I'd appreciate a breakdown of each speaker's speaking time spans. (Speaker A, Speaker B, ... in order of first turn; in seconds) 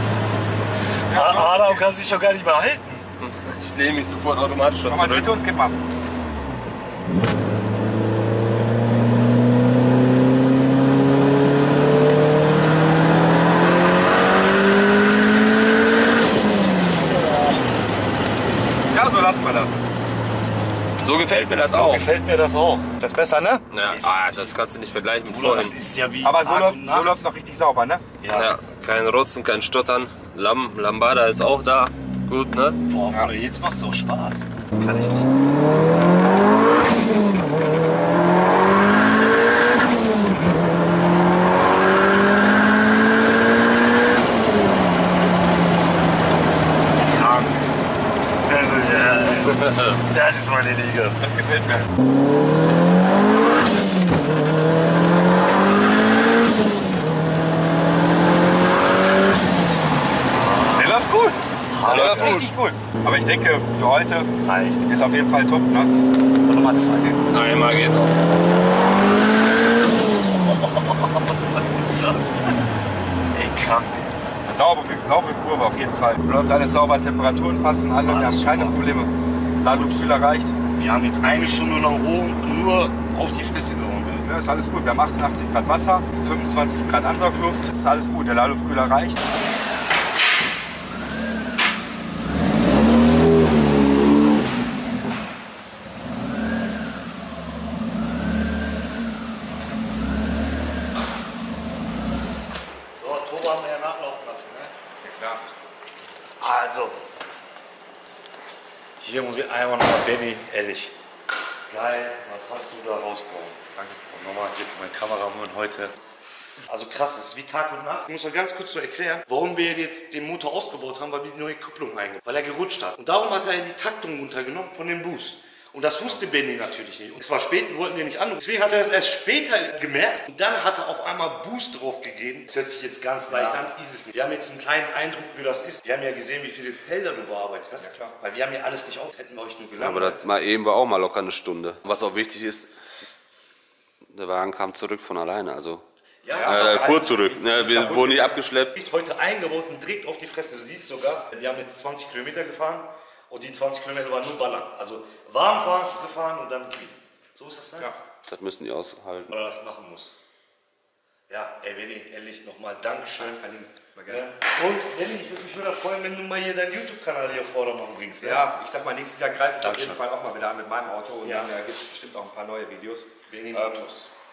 Speaker A: 1.1-1.9, 4.9-5.8, 18.9-19.8, 23.0-23.7, 26.2-28.0, 51.2-51.9, 60.8-64.3, 64.9-65.9, 74.5-80.6, 84.2-89.2, 105.0-105.4, 113.8-114.0, 133.3-133.7, 137.8-138.1, 146.3-148.4, 163.2-164.3, 168.2-173.9
Speaker B: 1.1-3.1, 17.2-17.5, 21.5-22.9, 23.8-24.6, 25.2-27.2, 28.2-28.5, 32.9-35.3, 47.0-47.7, 48.5-51.2, 60.3-61.1, 61.7-62.5, 64.4-64.9, 66.4-67.3, 70.2-72.5, 73.3-74.2, 78.0-78.8, 79.7-80.0, 80.7-84.3, 103.0-104.7, 106.4-107.0, 109.0-111.0, 111.7-115.9, 116.7-140.3, 146.2-147.0, 148.7-157.9, 159.3-160.1, 161.3-163.4, 164.1-168.5, 169.6-170.0, 171.2-171.5, 173.3-174.1
Speaker C: 3.2-5.4, 21.0-22.1, 23.7-25.8, 28.3-32.8, 61.9-62.5, 67.3-68.2, 139.8-142.7, 144.1-145.8, 146.4-148.7, 158.3-159.3